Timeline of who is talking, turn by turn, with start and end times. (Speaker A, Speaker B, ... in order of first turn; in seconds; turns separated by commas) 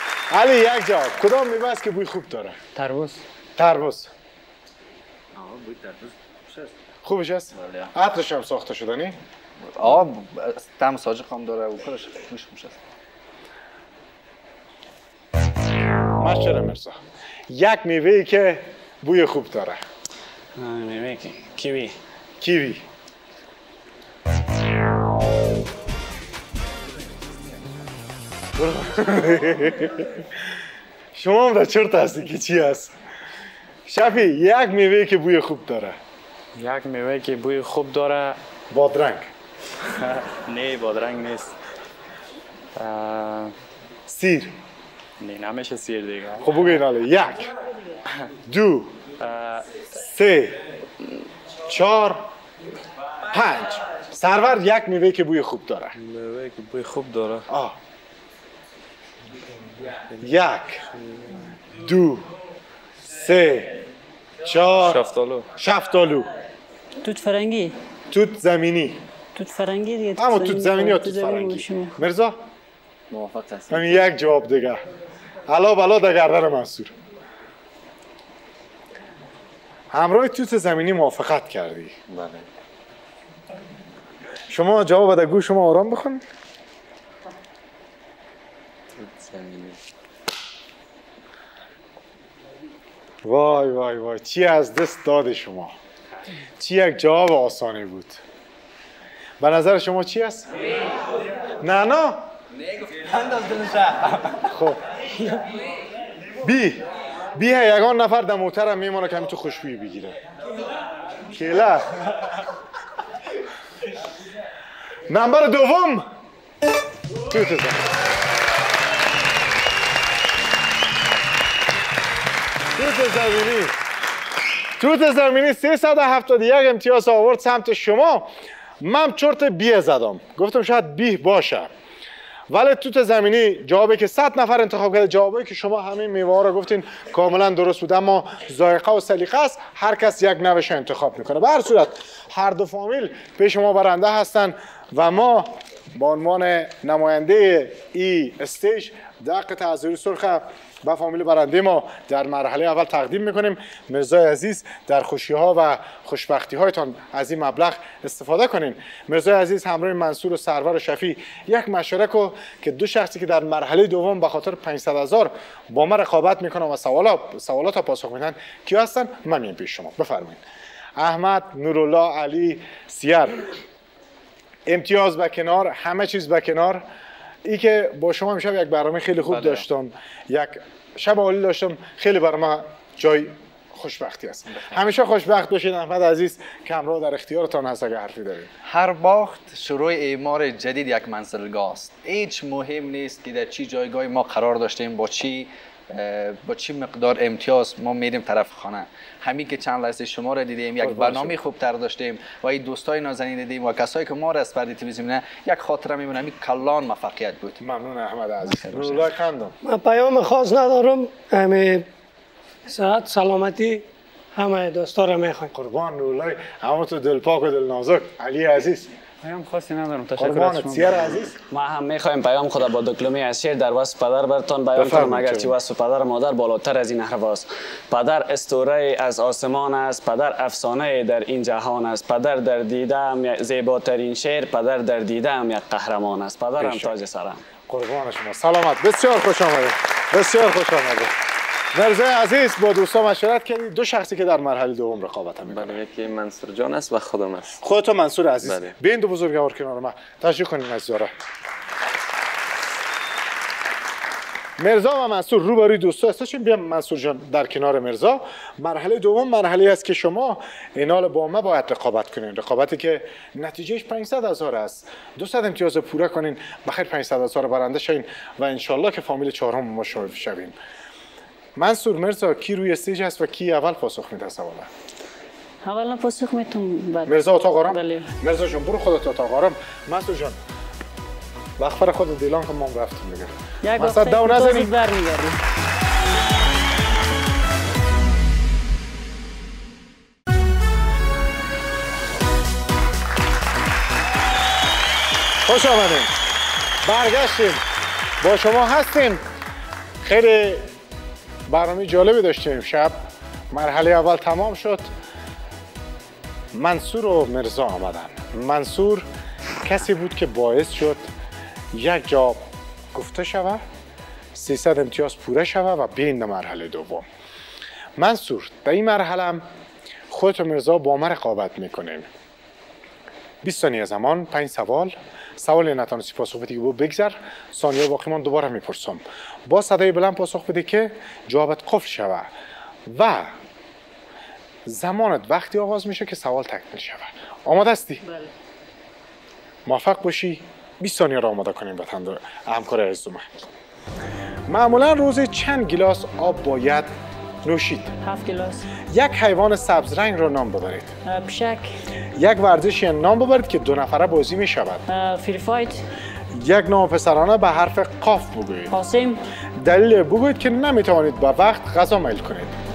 Speaker A: 0.3-2.6, Speaker B: 2.7-3.2, Speaker A: 3.6-4.1, Speaker C: 5.3-6.7, Speaker A: 7.0-9.2, Speaker C: 7.5-7.9, Speaker C: 9.7-12.8, Speaker A: 16.2-19.8, Speaker D: 20.6-21.9, Speaker A: 22.4-22.8, Speaker A: 28.6-30.3, Speaker A: 31.1-32.9, Speaker A: 33.9-36.0, Speaker E: 36.5-38.4, Speaker A: 38.7-39.3, Speaker E: 40.0-41.5, Speaker E: 42.7-43.5, Speaker A: 44.1-44.5, Speaker E: 45.2-46.8, Speaker A: 46.4-47.5, Speaker A: 48.5-48.9, Speaker E: 49.2-49.6, Speaker A: 49.9-50.6, Speaker A: 51.6-52.2, Speaker A: 53.3-55.9, Speaker F: 56.0-57.5, Speaker A: 57.5-57.8, Speaker A: 60.2-60.8, Speaker F: 60.9-61.4, Speaker A: 61.8-62.3, Speaker A: 63.0-63.8, Speaker A: 64.4-65.0, Speaker F: 64.8-65.5, Speaker A: 65.5-66.3, Speaker G: 67.0-67.7, Speaker A: 68.1-69.0, Speaker G: 69.3-72.0, Speaker A: 70.2-72.4, Speaker H: 73.1-74.1, Speaker A: 73.7-74.8, Speaker A: 75.5-76.9, Speaker A: 79.9-82.0, Speaker H: 82.1-82.4, Speaker A: 84.5-86.2, Speaker H: 88.9-89.8, Speaker A: 93.2-95.7, Speaker A: 96.6-98.2, Speaker A: 99.4-100.5, Speaker A: 101.6-102.2, Speaker C: 102.8-104.4, Speaker A: 104.4-104.8, Speaker A: 106.4-106.8, Speaker A: 107.3-110.2, Speaker A: 111.3-112.0, Speaker A: 115.1-116.1, Speaker A: 117.3-117.9, Speaker A: 122.8-123.8, Speaker A: 124.8-128.3, Speaker A: 128.8-131.7, Speaker A: 132.5-170.4, Speaker A: 171.0-173.5, Speaker A: 174.7-176.8, Speaker A: 177.4-188.5, Speaker C: 179.2-179.6, Speaker C: 184.5-184.8, Speaker C: 188.6-207.6, Speaker A: 200.8-201.4, Speaker A: 207.6-209.5, Speaker C: 208.7-209.0, Speaker I: 209.6-211.8, Speaker I: 212.7-213.8, Speaker I: 214.3-215.5, Speaker A: 215.5-218.9, Speaker B: 219.2-221.2, Speaker A: 220.2-221.3, Speaker D: 221.5-237.4, Speaker A: 224.8-225.6, Speaker A: 236.6-236.9, Speaker A: 237.7-241.1, Speaker A: 241.7-245.8, Speaker H: 245.4-247.6, Speaker A: 247.6-251.1, Speaker H: 248.4-248.7, Speaker A: 254.6-270.5, Speaker A: 271.6-274.7, Speaker G: 275.6-277.1, Speaker A: 277.1-280.4, Speaker G: 277.7-278.1, Speaker A: 281.6-284.7, Speaker G: 283.6-285.4, Speaker A: 295.4-296.1, Speaker A: 296.8-297.6, Speaker A: 298.2-299.2, Speaker A: 300.0-300.7, Speaker A: 301.5-302.9, Speaker A: 303.5-304.9, Speaker A: 306.5-309.1, Speaker A: 309.6-311.1, Speaker A: 311.7-312.4, Speaker A: 312.9-313.6, Speaker A: 314.3-317.1, Speaker A: 318.0-319.4, Speaker A: 320.1-322.1, Speaker A: 323.4-332.3, Speaker A: 332.9-333.3, Speaker A: 334.6-338.0, Speaker G: 338.0-338.3, Speaker A: 339.6-343.2, Speaker A: 344.5-346.9, Speaker A: 347.4-347.9, Speaker G: 348.0-348.7, Speaker A: 348.9-350.9, Speaker G: 351.0-351.7, Speaker A: 352.2-354.8, Speaker G: 354.9-355.8, Speaker A: 356.3-358.7, Speaker G: 358.7-359.2, Speaker A: 359.6-362.6